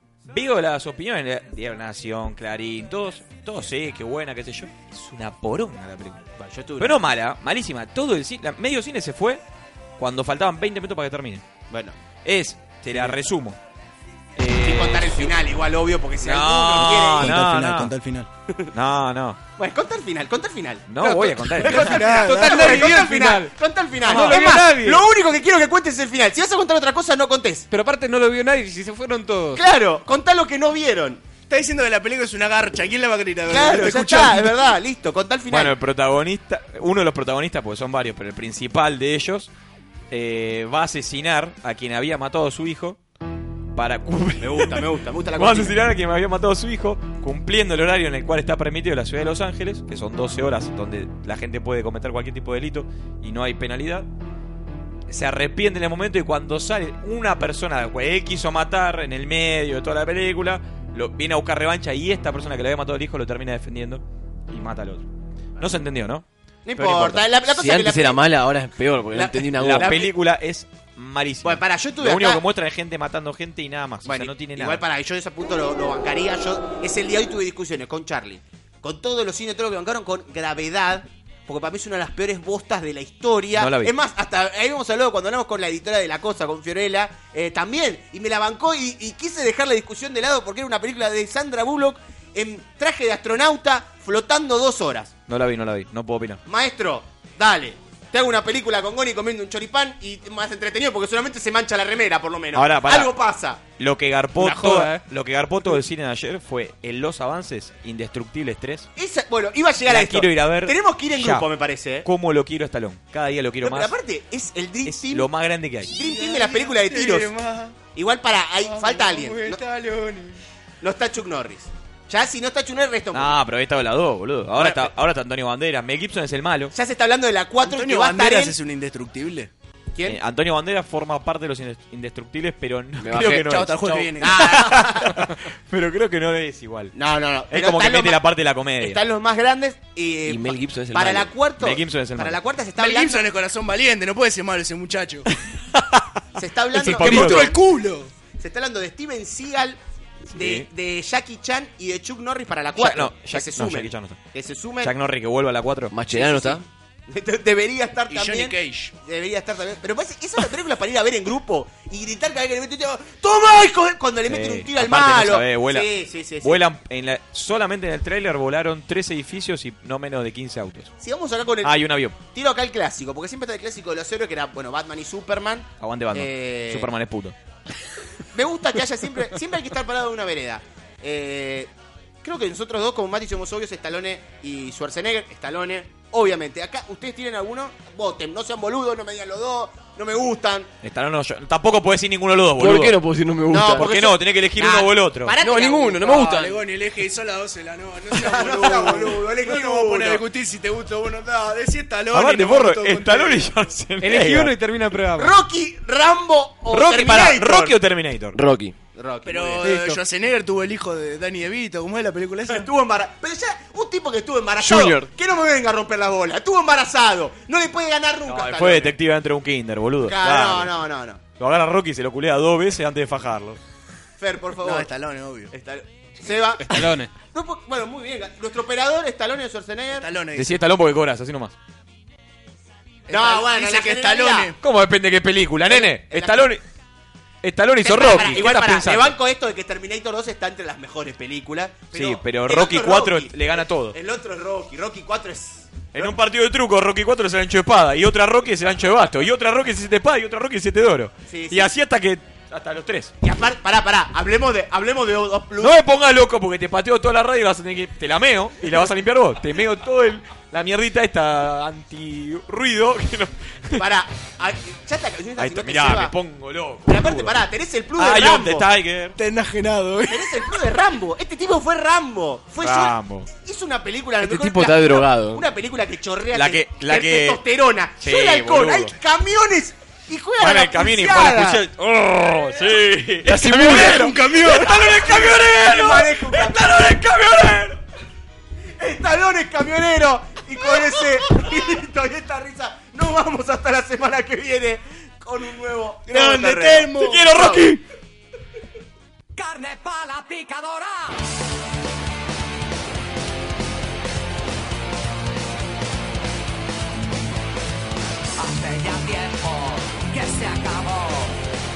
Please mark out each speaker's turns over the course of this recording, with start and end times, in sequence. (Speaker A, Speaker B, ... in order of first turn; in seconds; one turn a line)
Speaker A: 0.2-6.2
Speaker B: 6.4-7.0
Speaker A: 6.8-9.4
Speaker A: 10.0-11.4
Speaker B: 11.7-11.9
Speaker A: 12.2-13.6
Speaker A: 14.4-15.3
Speaker B: 14.5-17.4
Speaker A: 16.2-17.9
Speaker C: 16.8-18.3
Speaker A: 18.7-19.4
Speaker B: 19.6-20.9
Speaker A: 20.9-22.2
Speaker D: 21.0-25.1
Speaker B: 21.6-27.7
Speaker C: 21.6-23.0
Speaker D: 27.7-29.6
Speaker B: 29.5-31.2
Speaker C: 31.5-34.6
Speaker B: 33.5-35.7
Speaker A: 35.5-39.5
Speaker A: 40.1-43.0
Speaker A: 43.7-54.1
Speaker B: 44.4-45.8
Speaker A: 55.1-65.0
Speaker B: 65.5-65.8
Speaker A: 65.6-67.3
Speaker B: 66.6-68.2
Speaker E: 67.5-69.9
Speaker B: 69.1-70.1
Speaker A: 69.6-74.8
Speaker B: 71.4-72.4
Speaker B: 74.0-95.1
Speaker A: 83.5-83.9
Speaker A: 95.3-96.4
Speaker B: 96.5-103.6
Speaker A: 102.5-103.1
Speaker A: 103.8-108.9
Speaker B: 104.4-104.9
Speaker D: 104.5-105.0
Speaker B: 109.0-112.0
Speaker A: 109.8-111.5
Speaker A: 112.0-113.9
Speaker B: 113.6-115.3
Speaker A: 114.8-115.9
Speaker B: 115.8-117.3
Speaker C: 115.9-117.8
Speaker B: 117.9-119.6
Speaker C: 118.6-120.4
Speaker B: 120.8-123.4
Speaker A: 123.1-126.7
Speaker B: 124.5-124.9
Speaker B: 126.7-128.5
Speaker C: 127.6-129.5
Speaker A: 130.0-136.9
Speaker E: 133.0-134.1
Speaker C: 133.3-134.5
Speaker B: 134.2-135.2
Speaker B: 136.9-138.2
Speaker A: 137.5-139.0
Speaker B: 138.8-143.2
Speaker E: 140.3-141.3
Speaker A: 141.6-142.4
Speaker C: 142.8-145.3
Speaker B: 146.3-147.5
Speaker A: 146.7-147.5
Speaker C: 146.8-148.1
Speaker B: 148.4-149.8
Speaker B: 150.3-154.9
Speaker A: 150.3-150.7
Speaker A: 152.8-154.2
Speaker A: 154.8-155.9
Speaker E: 155.9-156.6
Speaker B: 156.1-166.6
Speaker C: 158.1-158.9
Speaker A: 164.2-170.9
Speaker B: 171.0-176.9
Speaker A: 171.6-172.2
Speaker A: 175.8-177.3
Speaker B: 178.3-181.7
Speaker B: 182.2-190.7
Speaker A: 190.8-193.0
Speaker E: 192.6-193.9
Speaker B: 193.5-196.3
Speaker A: 193.8-195.4
Speaker E: 195.4-196.6
Speaker C: 196.0-203.5
Speaker B: 198.1-200.2
Speaker A: 202.1-204.5
Speaker D: 204.0-205.4
Speaker B: 205.2-207.8
Speaker A: 206.7-208.4
Speaker E: 208.3-208.7
Speaker B: 208.9-209.7
Speaker C: 209.2-212.7
Speaker D: 209.6-210.0
Speaker B: 212.5-219.0
Speaker E: 214.6-215.1
Speaker A: 218.2-220.7
Speaker B: 220.0-221.2
Speaker A: 221.4-223.6
Speaker B: 224.2-224.9
Speaker C: 224.6-225.5
Speaker B: 225.5-230.1
Speaker D: 226.7-227.1
Speaker C: 229.9-230.6
Speaker A: 230.3-231.5
Speaker B: 233.1-234.5
Speaker C: 233.1-234.6
Speaker A: 234.6-236.6
Speaker B: 235.6-236.5
Speaker A: 237.4-239.2
Speaker B: 237.8-246.2
Speaker A: 241.9-243.9
Speaker A: 245.9-253.1
Speaker B: 251.3-251.7
Speaker B: 253.2-255.7
Speaker A: 255.6-263.9
Speaker B: 263.8-266.1
Speaker A: 265.4-267.4
Speaker B: 266.9-268.6
Speaker A: 268.0-269.2
Speaker C: 269.1-270.6
Speaker B: 270.1-281.6
Speaker A: 272.6-273.3
Speaker E: 274.2-275.5
Speaker A: 276.3-277.4
Speaker A: 278.0-278.9
Speaker A: 280.4-287.8
Speaker E: 283.3-284.0
Speaker C: 283.4-285.4
Speaker B: 283.6-286.9
Speaker B: 288.8-297.7
Speaker C: 296.1-297.3
Speaker A: 296.9-297.8
Speaker F: 299.3-301.3
Speaker F: 308.4-311.4